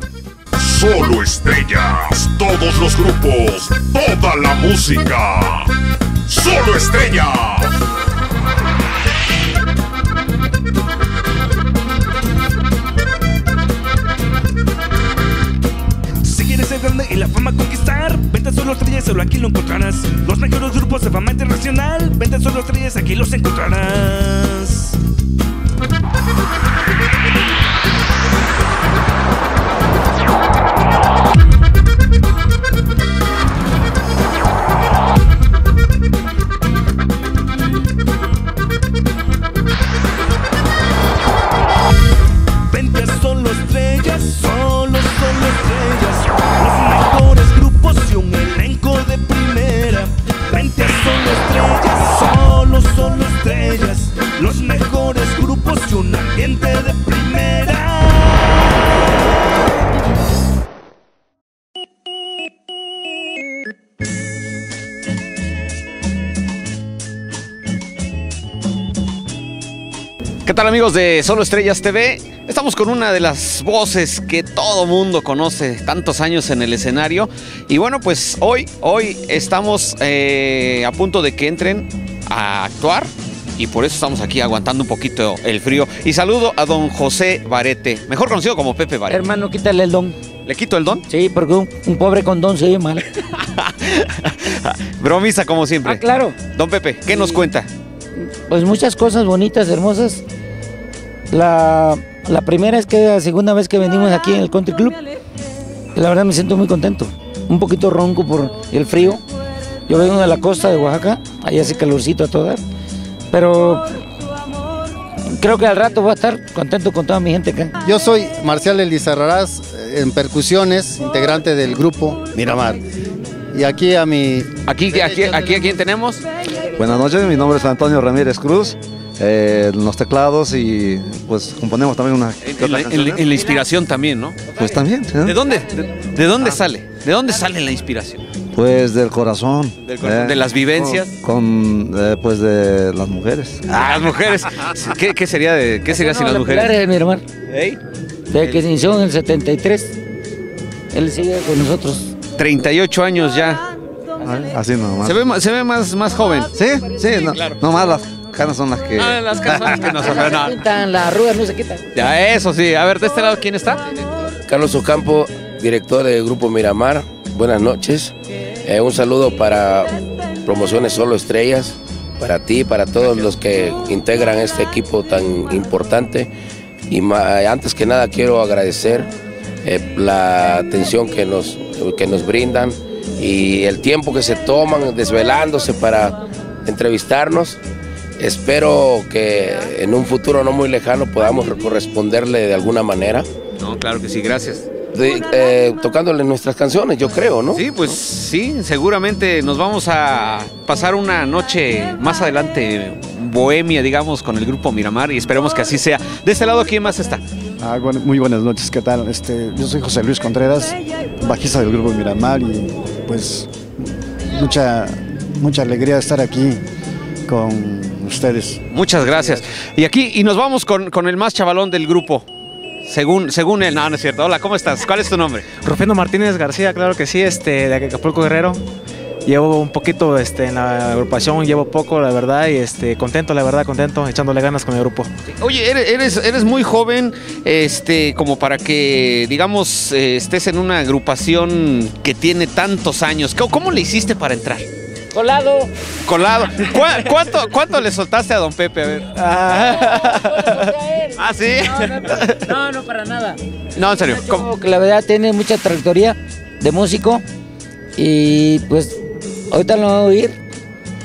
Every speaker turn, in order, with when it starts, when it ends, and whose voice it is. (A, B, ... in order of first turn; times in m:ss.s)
0:00.6-0:05.6 A
0:06.3-0:07.7 A
0:16.2-0:24.9 B
0:42.7-0:58.5 B
1:10.5-1:29.2 C
1:29.1-1:30.2 D
1:30.4-1:31.0 C
1:31.1-1:33.0 D
1:33.3-1:36.0 C
1:35.8-1:36.4 D
1:36.5-1:37.7 C
1:37.1-1:37.4 D
1:38.4-1:40.2 D
1:41.3-1:45.0 D
1:46.0-1:49.2 D
1:49.9-1:52.6 D
1:53.3-1:53.9 D
1:55.3-1:57.7 D
1:57.8-2:02.8 E
2:03.5-2:05.8 E
2:04.7-2:06.2 C
2:06.8-2:13.3 F
2:12.4-2:14.4 C
2:14.5-2:15.4 F
2:15.2-2:18.2 C
2:18.5-2:23.6 F
2:19.8-2:21.1 C
2:23.7-2:26.8 C
2:25.9-2:27.2 D
2:27.5-2:27.8 C
2:28.3-2:30.0 D
2:28.4-2:28.6 C
2:30.9-2:32.1 D
2:32.4-2:33.6 C
2:34.2-2:35.2 F
2:35.0-2:36.5 C
2:36.5-2:39.8 F
2:37.3-2:37.6 C
2:39.0-2:40.6 C
2:39.5-2:41.9 D
2:42.0-2:44.0 C
2:44.4-2:48.1 G
2:48.6-2:56.3 G
2:56.9-2:59.1 G
2:59.6-3:07.6 G
3:08.2-3:13.3 G
3:13.6-3:14.7 C
3:14.9-3:17.9 G
3:17.6-3:27.2 C
3:27.6-3:33.6 H
3:34.3-3:36.6 H
3:37.3-3:38.6 H
3:38.7-3:42.3 C
3:42.8-3:45.5 C
3:45.6-3:48.6 I
3:49.3-3:55.1 I
3:55.3-4:04.7 C
4:05.1-4:05.7 D
4:06.0-4:12.5 C
4:09.5-4:11.1 D
4:11.8-4:13.4 D
4:13.8-4:14.5 C
4:14.0-4:17.2 D
4:18.0-4:19.0 D
4:19.5-4:20.4 D